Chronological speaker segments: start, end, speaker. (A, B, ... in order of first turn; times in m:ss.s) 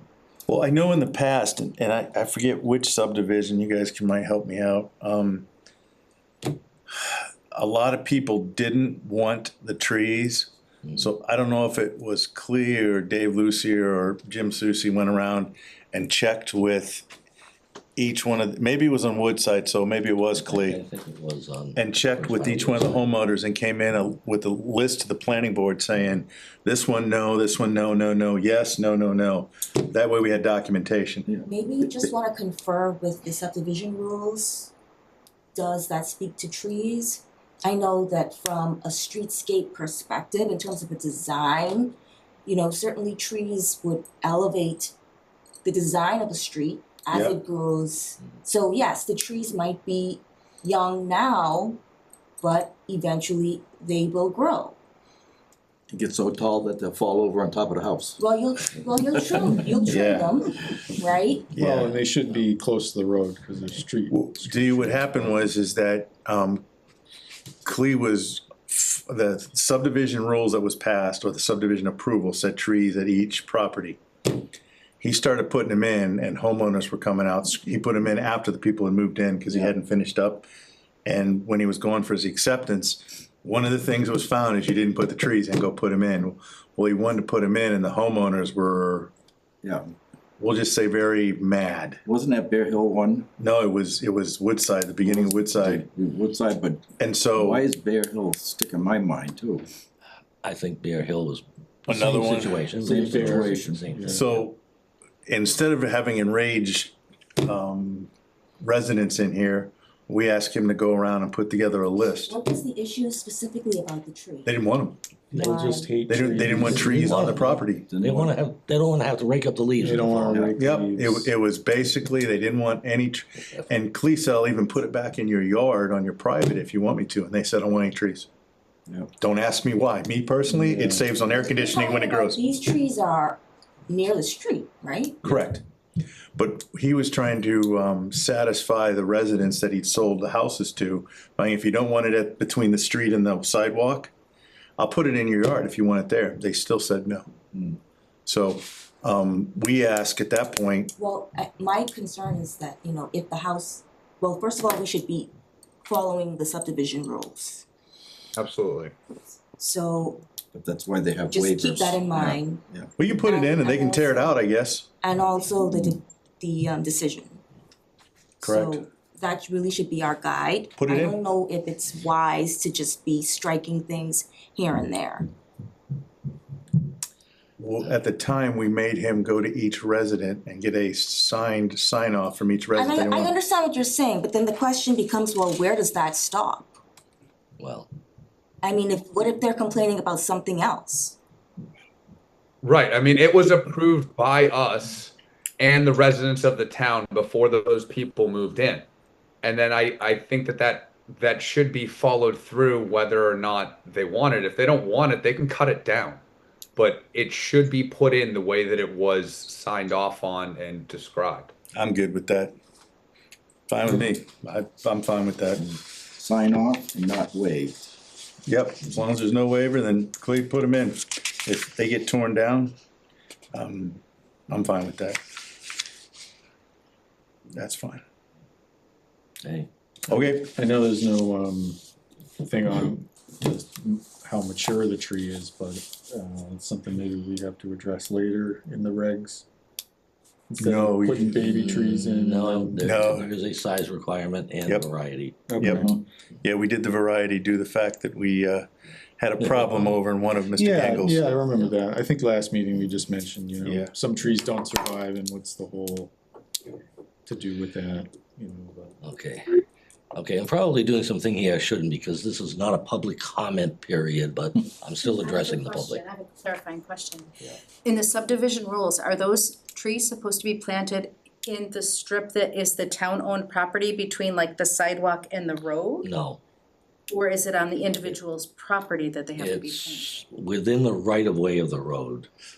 0:00.5-0:05.5 A
0:06.9-0:17.0 A
0:18.0-0:20.8 A
0:20.4-0:23.0 B
0:21.8-0:31.3 A
0:31.4-0:34.7 C
0:35.6-0:44.9 C
0:45.6-0:51.8 C
0:47.1-0:47.4 A
0:52.4-0:54.8 C
0:55.9-0:58.2 D
0:58.2-1:01.5 C
0:59.9-1:00.3 A
1:01.5-1:02.0 A
1:01.6-1:04.9 E
1:04.1-1:06.6 A
1:07.6-1:14.0 A
1:15.0-1:20.5 A
1:21.0-1:29.1 A
1:29.6-1:29.9 D
1:30.4-1:32.0 A
1:32.1-1:33.3 D
1:33.4-1:35.8 A
1:35.1-1:36.8 D
1:37.0-1:37.6 A
1:37.4-1:39.7 D
1:40.4-1:44.4 B
1:41.9-1:42.6 A
1:42.2-1:44.2 E
1:42.8-1:44.1 D
1:44.1-1:44.6 A
1:45.3-1:52.4 A
1:52.3-1:54.6 C
1:54.4-1:55.0 A
1:55.3-1:55.6 B
1:55.3-1:57.4 E
1:55.4-1:55.9 C
1:56.1-1:57.9 A
1:56.4-2:00.5 B
1:57.9-1:58.4 D
1:59.8-2:01.3 E
2:00.3-2:00.6 D
2:00.6-2:08.3 A
2:09.2-2:12.4 A
2:10.5-2:11.1 E
2:11.3-2:15.2 C
2:15.2-2:15.6 A
2:16.4-2:24.1 A
2:24.8-2:27.3 A
2:28.3-2:30.9 A
2:31.0-2:35.3 C
2:35.8-2:37.6 C
2:38.4-2:38.9 F
2:39.6-2:40.2 C
2:40.5-2:42.9 D
2:41.3-2:42.6 C
2:43.0-2:44.9 A
2:43.2-2:44.4 C
2:45.0-2:47.4 C
2:48.4-2:55.3 C
2:48.4-2:48.8 A
2:50.8-2:51.2 A
2:57.6-3:03.4 A
3:02.8-3:06.8 C
3:07.6-3:07.9 B
3:08.6-3:11.2 C
3:12.6-3:18.8 F
3:19.4-3:26.2 F
3:26.8-3:31.5 F
3:31.7-3:32.5 A
3:33.7-3:35.8 A
3:36.2-3:37.9 D
3:38.5-3:42.8 A
3:43.5-3:45.2 A
3:47.5-3:48.0 A
3:49.4-3:49.7 B
3:50.1-3:50.6 A
3:50.1-3:51.8 E
3:52.4-3:59.4 E
4:00.5-4:02.9 E
4:00.6-4:01.2 A
4:01.4-4:05.5 B
4:02.8-4:03.3 A
4:05.5-4:06.0 E
4:05.6-4:05.9 A
4:05.6-4:06.0 D
4:06.4-4:08.7 A
4:09.2-4:11.3 A
4:09.4-4:09.9 B
4:10.6-4:16.1 E
4:13.6-4:13.9 A
4:17.3-4:19.0 E
4:19.0-4:19.6 B
4:20.1-4:26.0 B
4:25.0-4:36.1 G
4:36.0-4:36.4 B
4:37.1-4:40.1 G
4:39.4-4:42.3 B